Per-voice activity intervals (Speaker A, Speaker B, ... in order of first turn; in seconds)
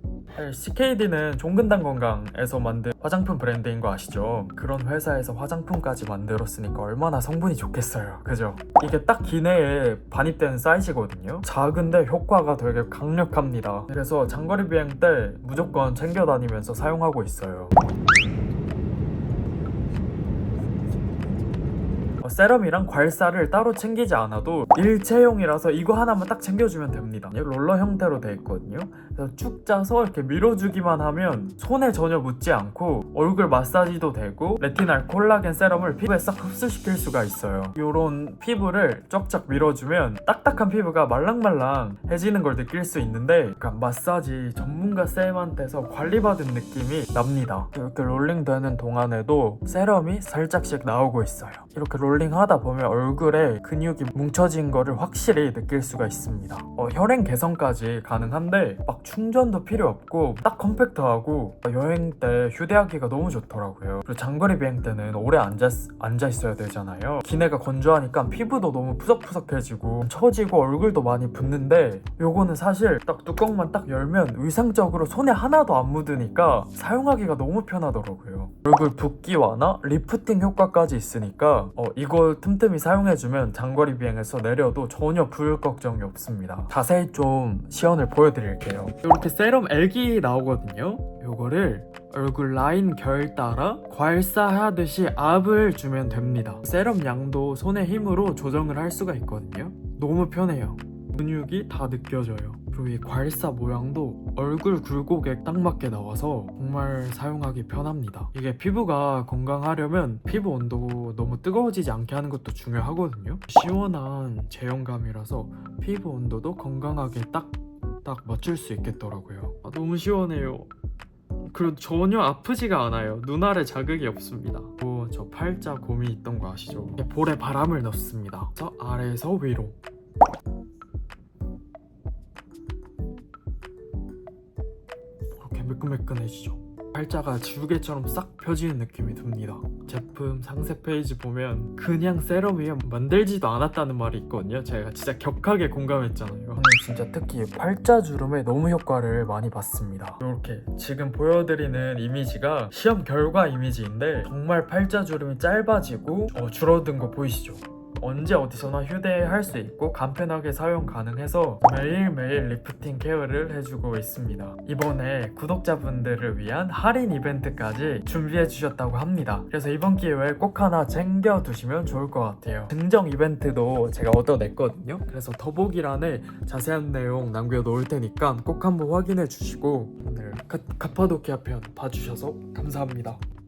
Speaker A: 0.3-17.8, 22.2-120.7, 121.5-129.8, 135.3-183.2